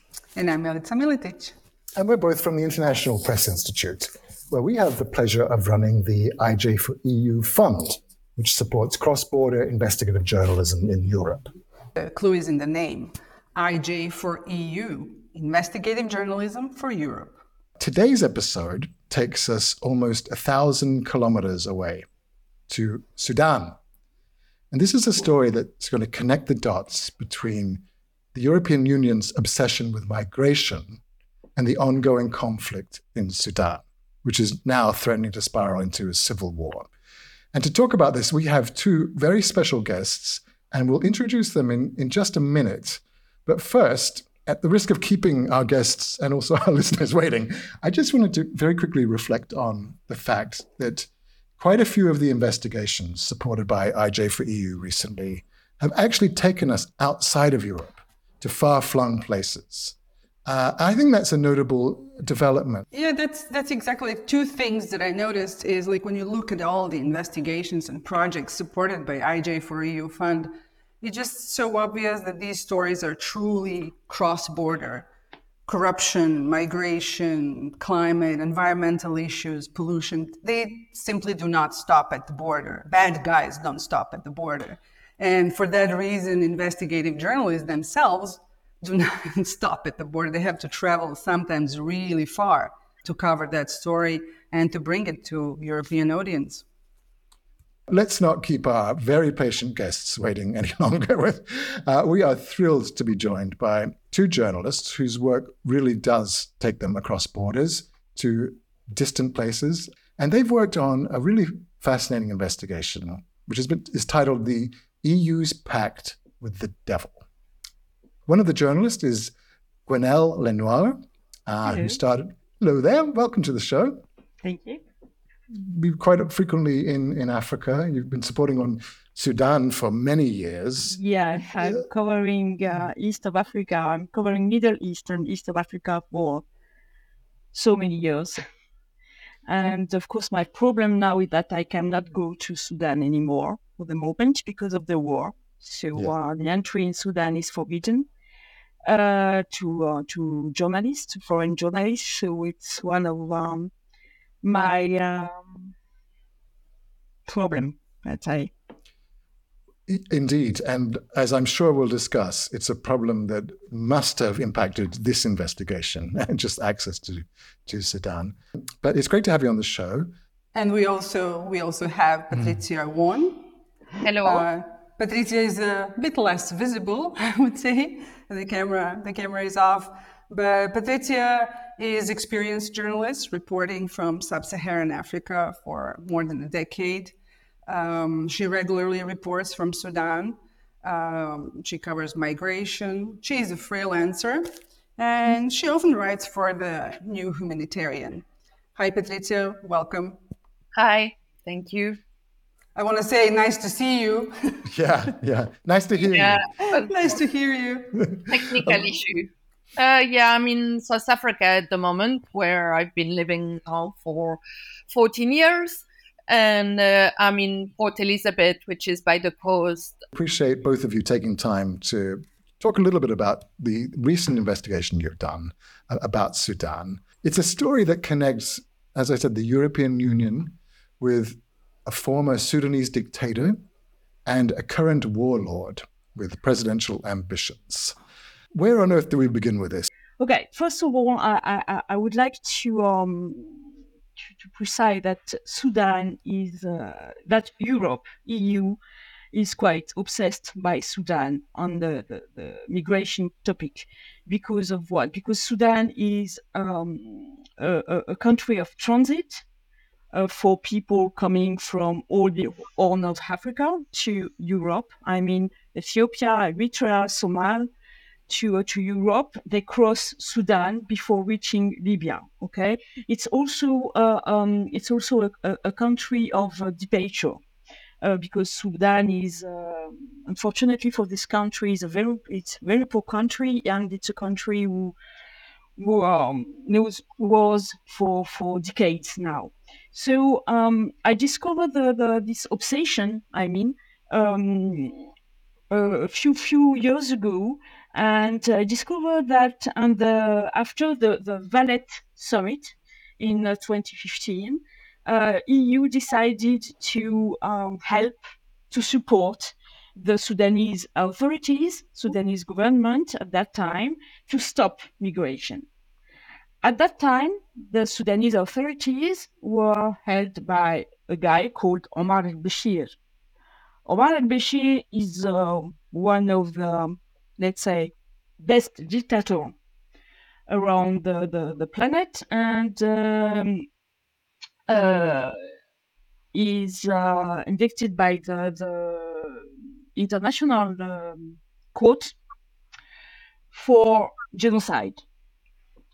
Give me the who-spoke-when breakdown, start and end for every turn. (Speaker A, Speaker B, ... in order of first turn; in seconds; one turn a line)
Speaker A: 0.3-1.5
Speaker B: 2.0-11.5
Speaker A: 12.0-17.4
Speaker B: 17.8-22.1
Speaker B: 22.7-23.8
Speaker B: 24.7-31.0
Speaker B: 31.6-36.9
Speaker B: 37.5-62.9
Speaker A: 62.9-75.1
Speaker A: 75.7-96.7
Speaker B: 97.9-117.2
Speaker B: 118.3-119.3
Speaker B: 119.9-124.0
Speaker C: 121.7-122.0
Speaker C: 124.4-124.8
Speaker B: 125.5-131.0
Speaker C: 130.9-136.4
Speaker C: 137.5-138.4
Speaker C: 139.5-148.1
Speaker C: 148.8-153.7
Speaker C: 154.4-155.7
Speaker C: 157.3-158.5
Speaker B: 159.9-170.1
Speaker A: 170.6-173.5
Speaker D: 174.0-174.5
Speaker A: 174.2-187.2
Speaker A: 187.7-198.2
Speaker A: 198.8-200.2
Speaker D: 200.8-202.0
Speaker A: 202.8-204.7
Speaker B: 204.7-206.4
Speaker D: 206.1-207.2
Speaker A: 206.6-208.1
Speaker D: 208.3-220.0
Speaker B: 220.1-233.6
Speaker B: 234.3-238.0
Speaker B: 238.5-239.9
Speaker C: 240.2-243.7
Speaker C: 244.4-248.8
Speaker C: 249.3-259.4
Speaker C: 260.1-267.7
Speaker C: 268.3-277.4
Speaker C: 278.0-284.9
Speaker C: 285.8-295.1
Speaker C: 295.7-308.2
Speaker C: 308.7-315.7
Speaker C: 316.6-322.9
Speaker C: 323.9-329.6
Speaker C: 330.5-333.7
Speaker C: 334.7-335.4
Speaker C: 336.3-342.1
Speaker C: 343.5-345.0